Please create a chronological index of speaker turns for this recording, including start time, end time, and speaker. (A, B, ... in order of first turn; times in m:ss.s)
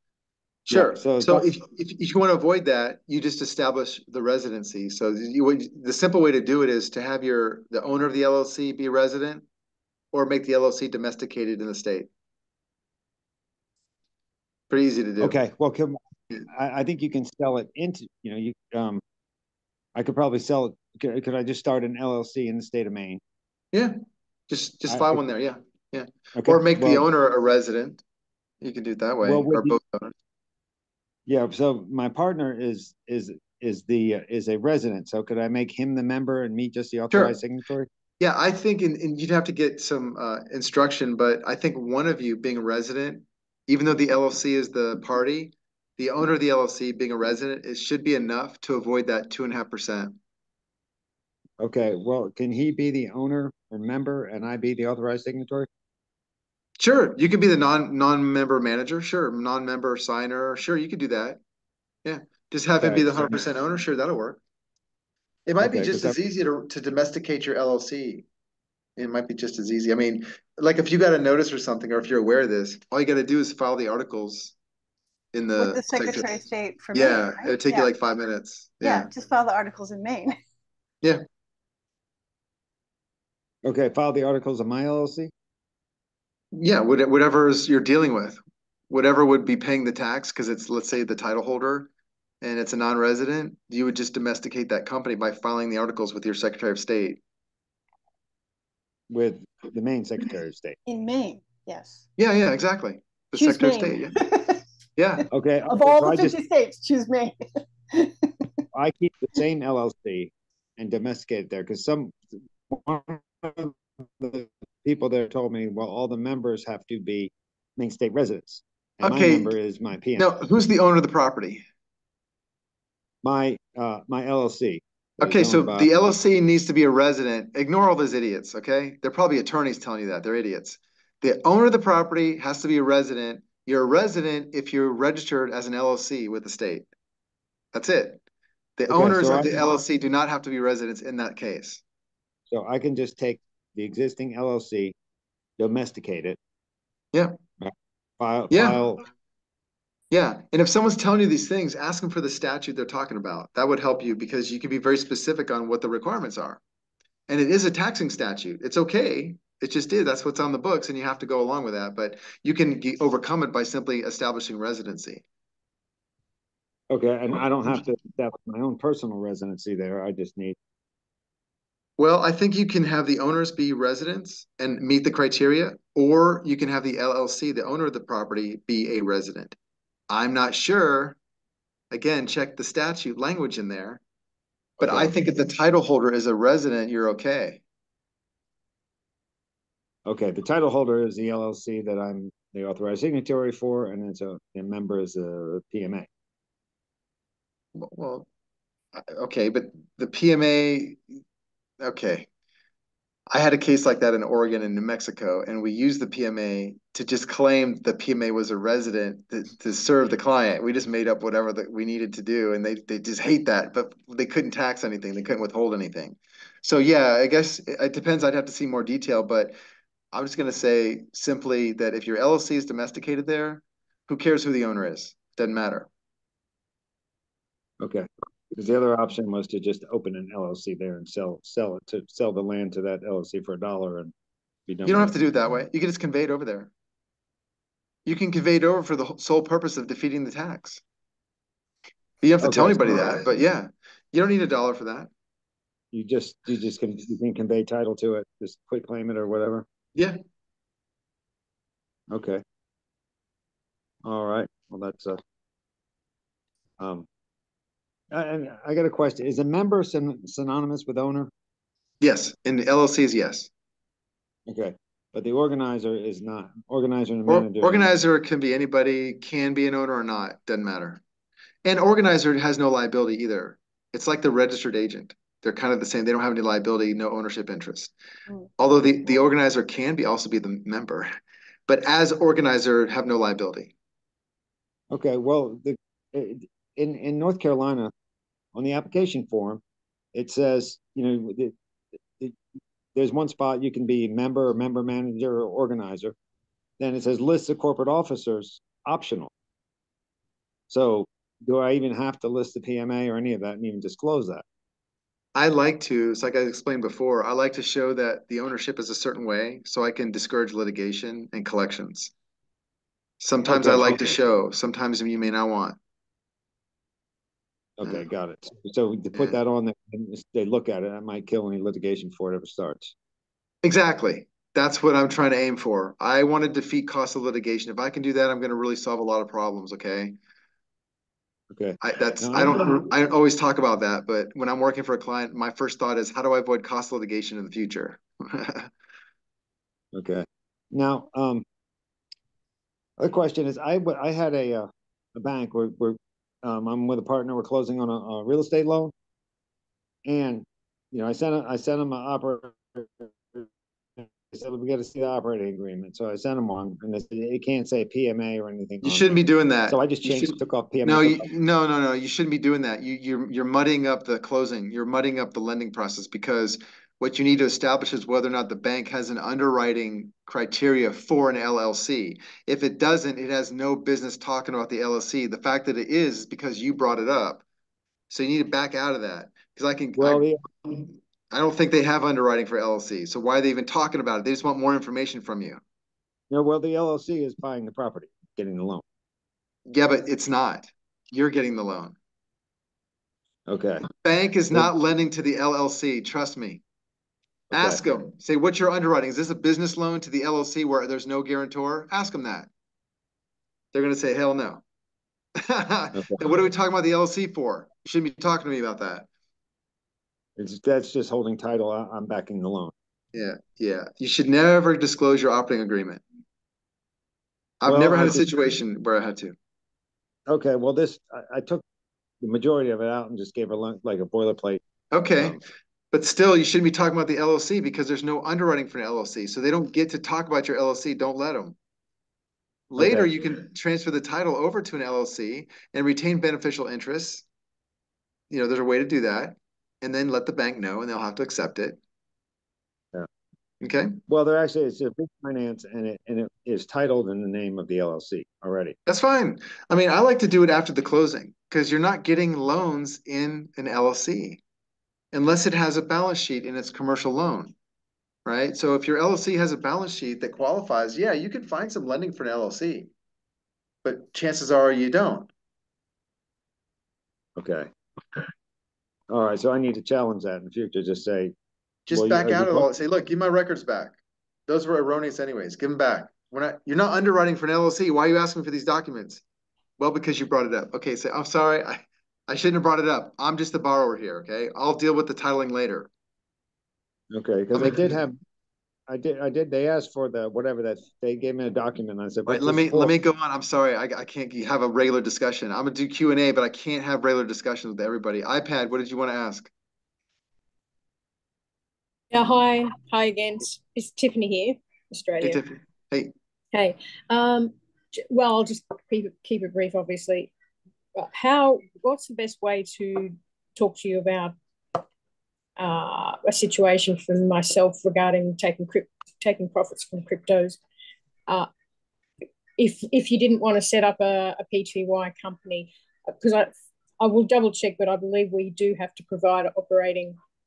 0:00.7-0:09.4 A
0:00.7-0:01.6 B
0:10.1-0:12.1 A
0:14.7-0:15.4 A
0:15.2-0:16.0 B
0:16.5-0:19.0 B
0:20.0-0:23.2 B
0:24.5-0:28.0 A
0:24.9-0:25.2 B
0:26.4-0:27.1 B
0:28.6-0:30.1 A
0:29.2-0:29.8 B
0:31.3-0:37.9 B
0:37.1-0:37.4 A
0:38.2-0:50.2 A
0:51.6-0:55.7 B
0:56.8-1:01.4 A
1:02.0-1:04.4 A
1:02.8-1:03.4 B
1:05.5-1:08.2 A
1:05.6-1:06.2 B
1:09.0-1:14.5 A
1:15.3-1:16.4 A
1:15.6-1:17.9 C
1:16.9-1:19.1 A
1:18.8-1:20.3 C
1:23.6-1:25.3 B
1:26.5-1:28.4 A
1:28.9-1:31.9 A
1:32.4-1:37.2 A
1:39.1-1:40.8 B
1:40.8-1:42.0 C
1:42.2-1:44.2 A
1:43.4-1:44.6 C
1:45.0-1:45.2 A
1:45.3-1:46.4 B
1:45.7-1:47.4 C
1:47.9-1:48.4 C
1:48.7-2:00.3 B
1:59.0-1:59.5 A
2:00.2-2:01.6 A
2:03.2-2:06.0 B
2:05.2-2:16.9 A
2:17.7-2:18.2 A
2:18.8-2:21.8 A
2:18.9-2:19.7 B
2:22.5-2:24.9 B
2:25.6-2:26.4 B
2:27.6-2:29.0 B
2:28.5-2:28.8 A
2:30.1-2:36.6 A
2:37.3-2:45.2 A
2:46.9-2:50.6 B
2:52.0-2:59.6 A
3:00.1-3:01.2 A
3:01.9-3:04.0 A
3:04.8-3:07.6 A
3:04.8-3:05.1 B
3:10.1-3:16.1 B
3:17.7-3:18.3 A
3:18.9-3:21.0 A
3:21.8-3:22.3 A
3:23.3-3:39.5 A
3:40.1-3:45.9 A
3:47.8-3:54.1 B
3:54.7-3:55.1 B
3:54.8-3:56.7 A
3:58.0-4:00.8 A
4:02.2-4:05.1 A
4:02.4-4:03.3 B
4:05.9-4:09.6 B
4:12.1-4:12.4 B
4:14.0-4:15.2 B
4:16.8-4:17.1 B
4:18.1-4:21.3 B
4:22.0-4:23.5 A
4:24.5-4:27.9 B
4:27.3-4:31.0 A
4:31.6-4:37.9 A
4:38.6-4:41.1 A
4:41.7-4:43.7 A
4:44.9-4:47.9 B
4:48.5-4:49.6 B
4:50.1-4:51.5 B
4:52.9-4:56.1 B
4:56.8-4:59.3 B
5:00.7-5:04.4 B
5:05.3-5:12.1 A
5:13.2-5:15.8 A
5:13.5-5:14.1 B
5:17.8-5:22.9 B
5:23.6-5:30.2 A
5:31.5-5:32.9 B
5:31.8-5:38.7 A
5:39.9-5:41.4 B
5:43.0-5:48.9 B
5:50.0-5:53.5 B
5:54.0-6:01.2 B
5:58.8-6:17.4 A
6:18.1-6:25.6 A
6:20.0-6:20.4 B
6:26.3-6:28.8 B
6:29.7-6:32.0 A
6:33.5-6:33.8 B
6:34.0-6:36.6 A
6:37.5-6:37.8 B
6:37.5-6:42.5 A
6:43.7-6:44.6 A
6:45.4-6:49.1 A
6:50.4-6:52.7 B
6:53.1-6:56.0 A
6:57.6-6:59.3 A
6:57.6-6:58.3 B
7:00.3-7:01.6 B
7:02.2-7:04.6 B
7:04.9-7:05.4 A
7:05.9-7:11.6 A
7:12.7-7:17.2 A
7:12.8-7:13.1 B
7:18.3-7:21.8 A
7:23.6-7:24.0 A
7:24.1-7:28.8 B
7:28.9-7:34.4 A
7:35.1-7:37.5 A
7:38.2-7:42.9 A
7:43.8-7:45.3 A
7:47.4-7:48.2 B
7:49.1-7:51.3 B
7:51.9-7:54.0 A
7:51.9-7:52.7 B
7:54.5-7:59.2 A
7:59.8-8:05.9 A
8:07.1-8:08.2 B
8:07.5-8:08.0 A
8:08.9-8:12.9 B
8:12.3-8:19.5 A
8:22.1-8:25.4 D
8:25.2-8:26.1 A
8:26.5-8:30.3 D
8:31.0-8:34.3 D
8:35.6-8:40.6 D
8:42.6-8:50.2 D